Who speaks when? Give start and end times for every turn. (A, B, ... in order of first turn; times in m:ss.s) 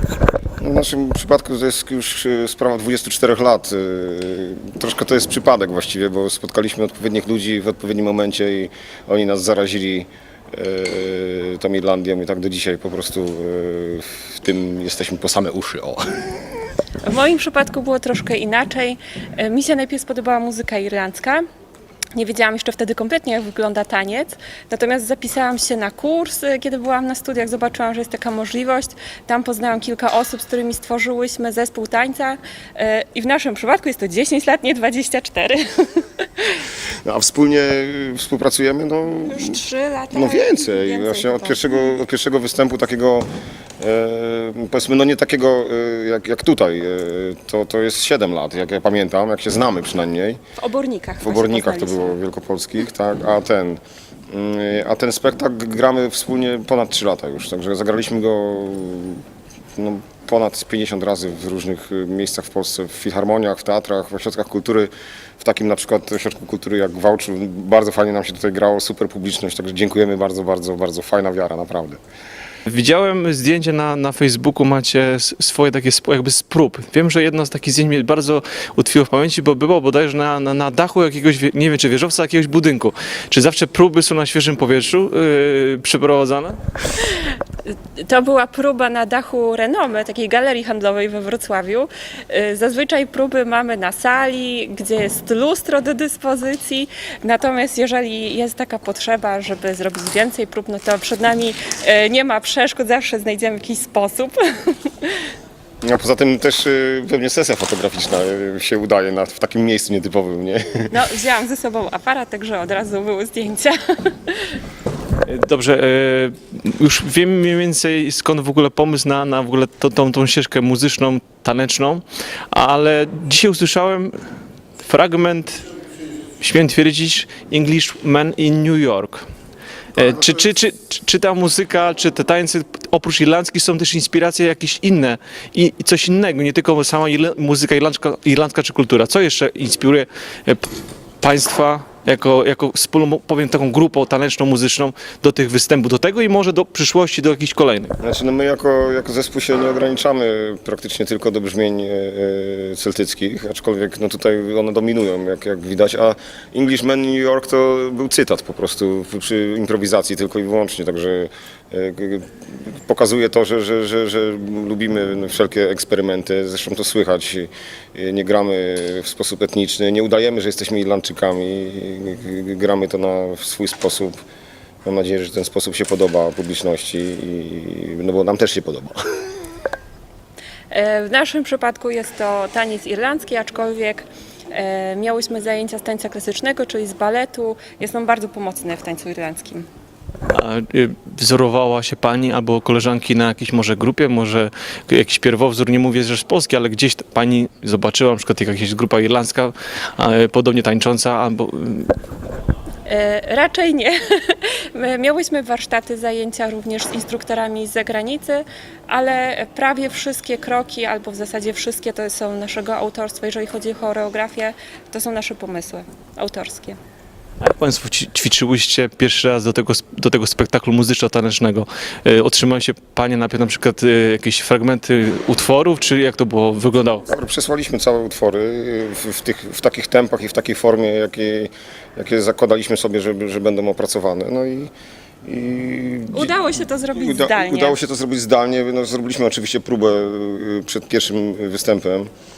0:00.6-0:16.4 A
0:17.0-0:21.4 B
0:22.1-0:36.6 B
0:37.0-0:39.6 A
0:39.3-0:42.0 B
0:40.1-0:43.3 A
0:43.8-0:50.4 A
0:50.6-0:52.2 B
0:51.2-0:59.2 A
0:59.7-1:12.0 A
1:12.7-1:26.6 C
1:27.0-1:45.3 B
1:45.8-1:50.9 A
1:50.9-1:54.6 B
1:55.2-2:04.1 C
2:04.8-2:05.6 C
2:06.4-2:09.2 C
2:09.9-2:20.6 C
2:21.2-2:27.9 C
2:28.0-2:54.2 A
2:54.8-2:59.2 A
3:00.7-3:09.6 B
3:10.3-3:21.9 C
3:22.8-3:36.8 B
3:37.4-3:47.0 C
3:47.0-3:54.7 A
3:55.2-4:02.1 A
3:56.1-3:57.8 B